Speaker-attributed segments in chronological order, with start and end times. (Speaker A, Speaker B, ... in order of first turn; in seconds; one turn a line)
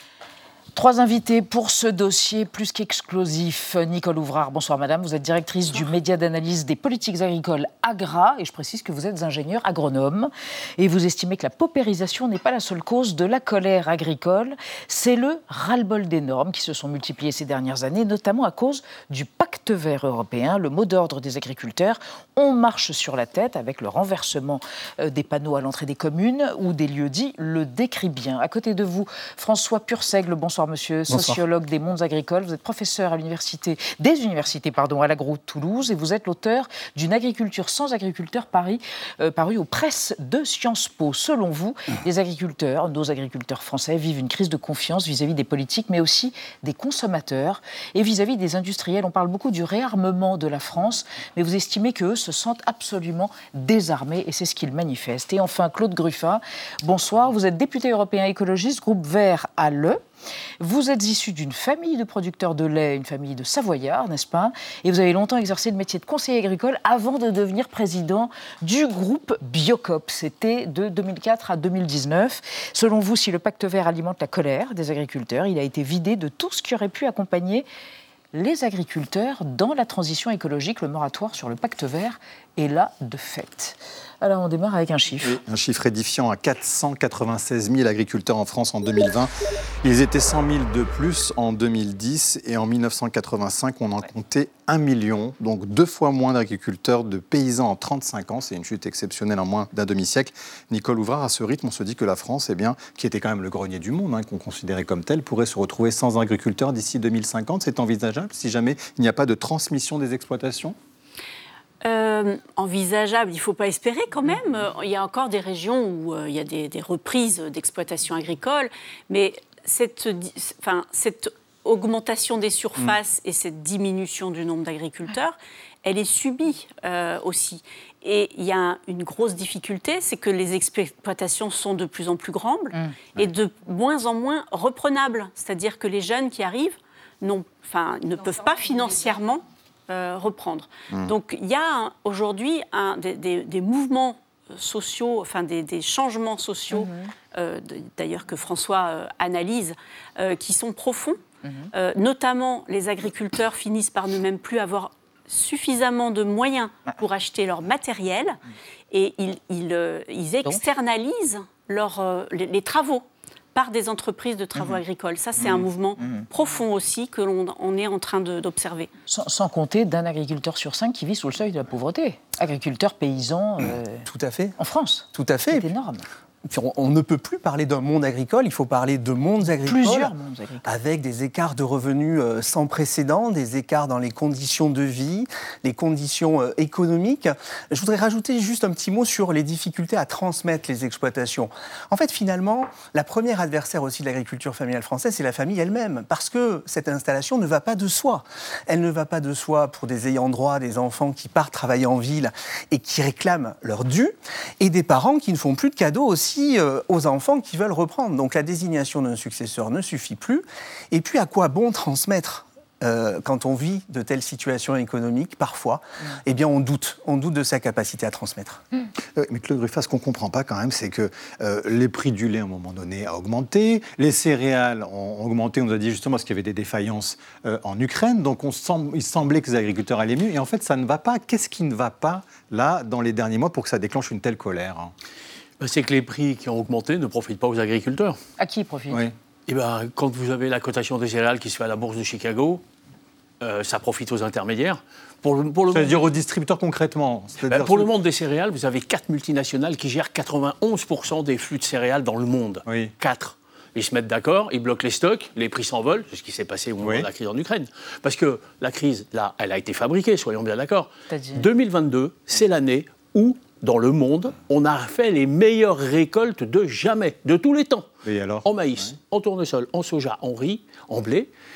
Speaker A: 0.7-60.0
Speaker B: 31.1-31.4
Speaker A: 60.6-77.7
Speaker A: 78.3-85.4
Speaker C: 85.2-89.3
Speaker C: 89.8-110.8
Speaker D: 111.8-151.2
Speaker A: 146.7-147.1
Speaker D: 151.7-158.4
Speaker D: 158.9-168.9
Speaker A: 166.0-166.2
Speaker A: 169.1-174.1
Speaker B: 174.1-174.6
Speaker A: 174.6-176.0
Speaker B: 175.1-175.7
Speaker B: 176.4-180.1
Speaker A: 179.4-180.7
Speaker B: 180.6-218.6
Speaker C: 219.1-234.9
Speaker E: 235.6-238.2
Speaker A: 238.4-239.0
Speaker E: 239.5-242.6
Speaker E: 243.4-246.0
Speaker C: 245.7-247.9
Speaker E: 247.4-267.9
Speaker C: 252.7-252.9
Speaker C: 256.8-257.1
Speaker A: 261.1-261.5
Speaker C: 268.0-268.9
Speaker E: 268.4-271.3